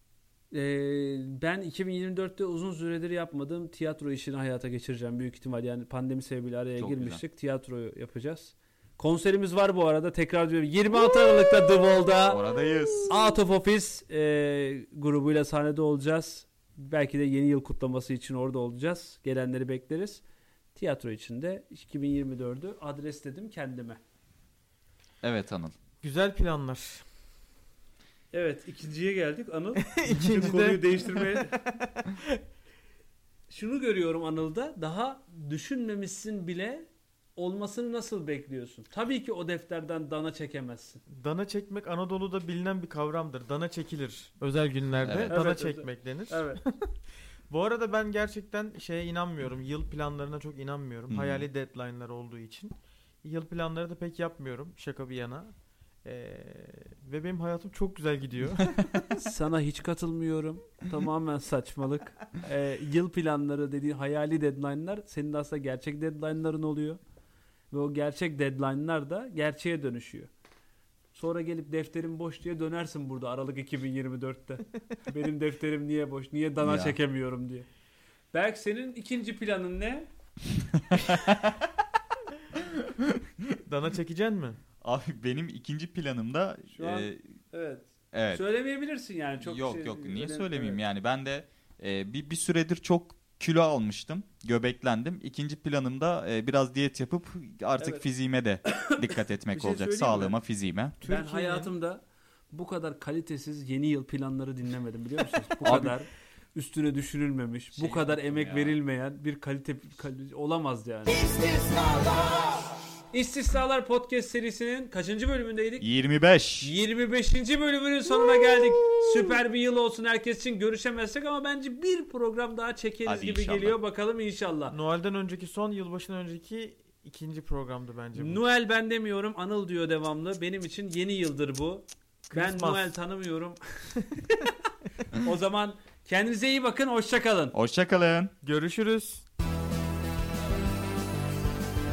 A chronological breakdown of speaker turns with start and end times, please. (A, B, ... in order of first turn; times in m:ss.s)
0:00.5-0:12.4 A
0:06.8-0:07.2 B
0:12.3-0:13.1 B
0:13.1-0:20.2 A
0:20.7-0:24.0 A
0:25.2-0:25.7 B
0:26.0-0:27.0 C
0:28.3-0:31.6 A
0:29.8-0:32.4 C
0:33.5-0:41.0 A
0:41.1-0:46.9 C
0:45.0-0:45.3 B
0:45.3-0:46.6 A
0:47.5-0:55.5 C
0:51.1-0:51.4 B
0:56.0-0:58.8 C
0:59.1-1:07.0 A
1:07.7-1:10.3 A
1:11.1-1:17.7 A
1:16.6-1:17.0 B
1:18.3-1:20.1 A
1:20.8-1:21.6 B
1:22.5-1:23.6 B
1:23.6-1:24.6 C
1:24.8-1:27.2 B
1:26.7-1:30.8 A
1:28.1-1:28.4 B
1:29.4-1:41.0 B
1:37.8-1:38.0 A
1:38.7-1:40.4 A
1:41.0-1:41.7 C
1:41.0-1:52.3 A
1:45.6-1:45.9 B
1:47.7-1:48.8 B
1:53.1-1:55.8 A
1:55.8-1:56.7 B
1:56.6-2:04.8 A
2:03.0-2:03.8 B
2:04.7-2:08.4 C
2:08.2-2:17.5 A
2:12.3-2:12.9 C
2:17.5-2:18.3 B
2:18.4-2:19.2 C